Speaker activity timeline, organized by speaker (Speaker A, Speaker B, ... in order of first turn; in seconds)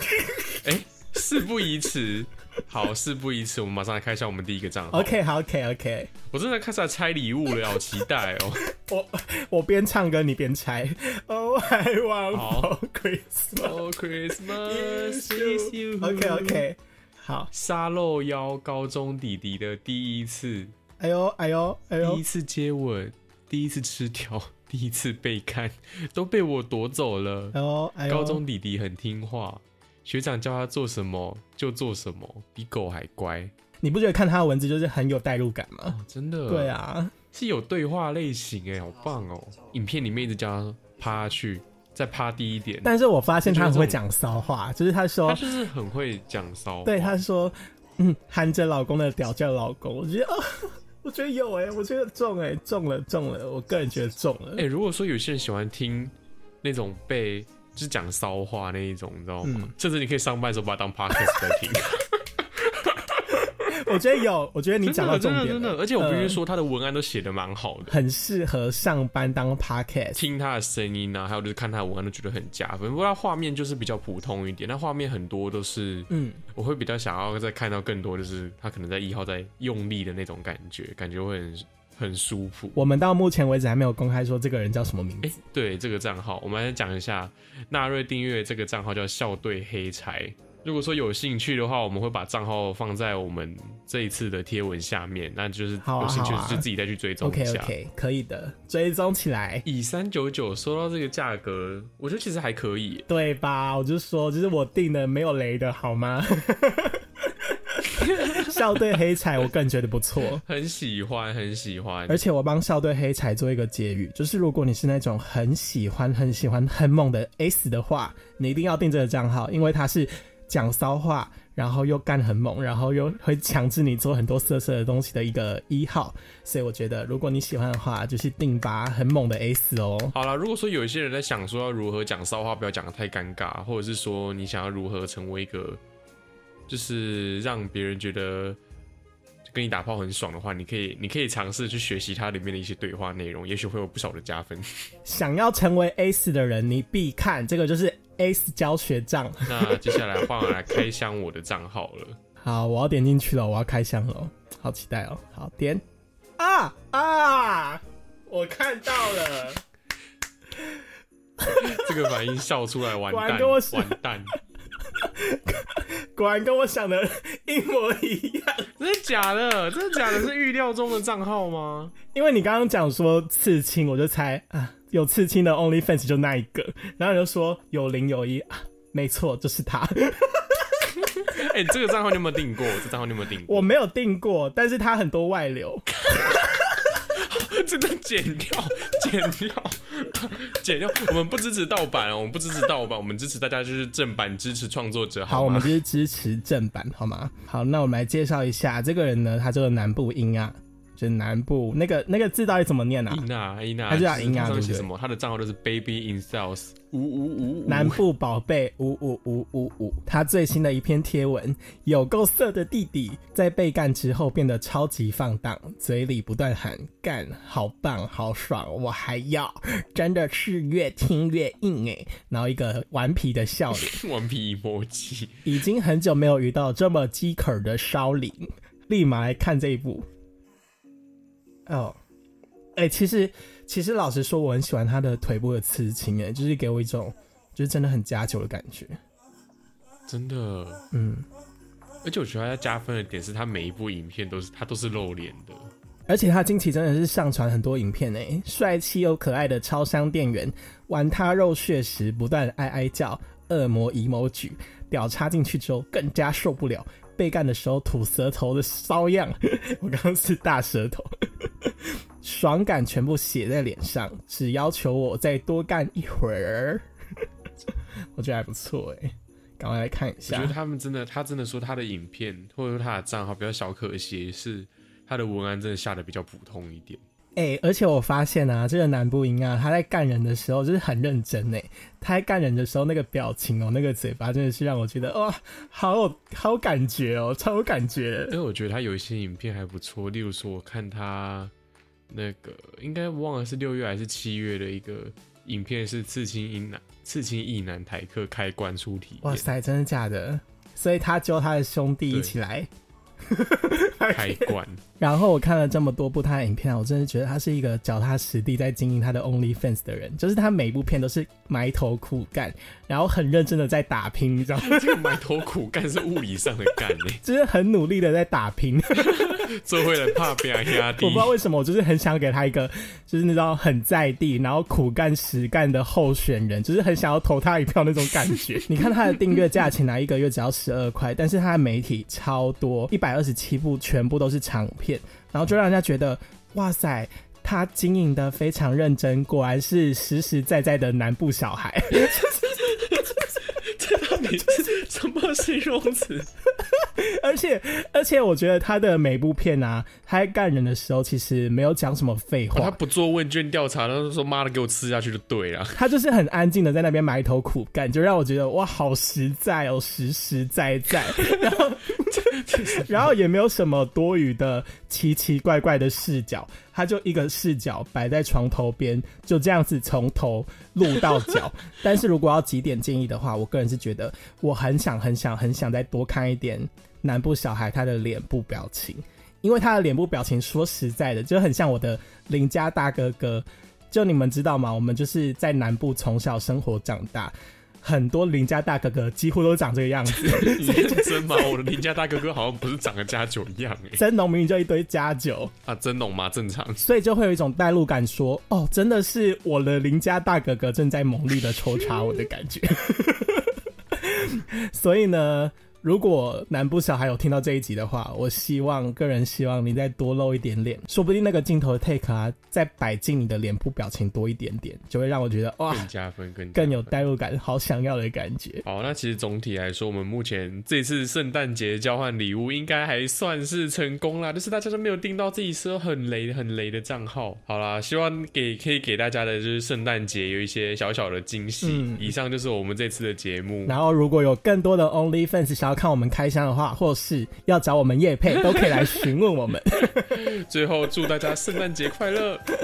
Speaker A: 0.6-5.1, 6.3-8.6, 12.3-12.7, 13.6-16.6, 17.5-20.7, 22.0-27.6, 28.1-33.5, 35.9-36.8, 37.3-42.9, 43.4-44.0, 45.2-47.2, 54.6-63.4, 64.8-67.9, 70.2-82.8, 85.2-97.7, 99.6-103.1, 108.0-108.9, 110.4-112.2, 130.1-135.8, 136.7-138.6, 139.4-144.7, 149.4-152.2, 161.6-164.3, 168.8-171.9, 180.9-183.7, 186.1-195.8, 203.1-208.0, 223.7-225.5, 240.1-240.8, 242.0-245.7, 270.3-277.0, 288.3-291.5, 292.1-299.5, 302.1-302.3, 304.1-304.8, 314.6-317.2, 318.9-321.3, 341.9-346.3, 352.5-355.8, 361.1-363.1, 390.1-394.0, 395.7-396.8, 415.7-417.1, 418.6-433.7, 438.4-439.1, 439.9-442.4
Speaker B: 4.9-6.1, 8.7-13.8, 14.6-17.5, 21.0-22.2, 27.5-28.4, 33.8-36.0, 36.5-37.1, 42.8-45.4, 46.8-54.6, 59.4-59.7, 63.5-66.4, 67.9-70.2, 76.1-76.4, 82.8-85.4, 95.8-96.7, 97.2-99.6, 103.1-107.0, 107.8-110.4, 112.1-130.1, 145.1-149.8, 152.4-155.8, 156.4-159.6, 161.4-161.9, 163.1-164.0, 165.0-168.7, 172.1-180.6, 183.4-186.3, 195.3-203.2, 203.9-204.9, 207.7-224.0, 225.4-230.1, 231.7-232.0, 232.8-239.0, 240.9-241.2, 246.1-266.8, 268.2-270.6, 277.4-288.4, 299.2-302.7, 303.3-315.0, 317.2-319.5, 320.8-342.3, 346.8-352.8, 355.7-391.5, 394.0-395.5, 396.8-415.9, 416.5-418.6, 431.6-432.1, 433.7-440.2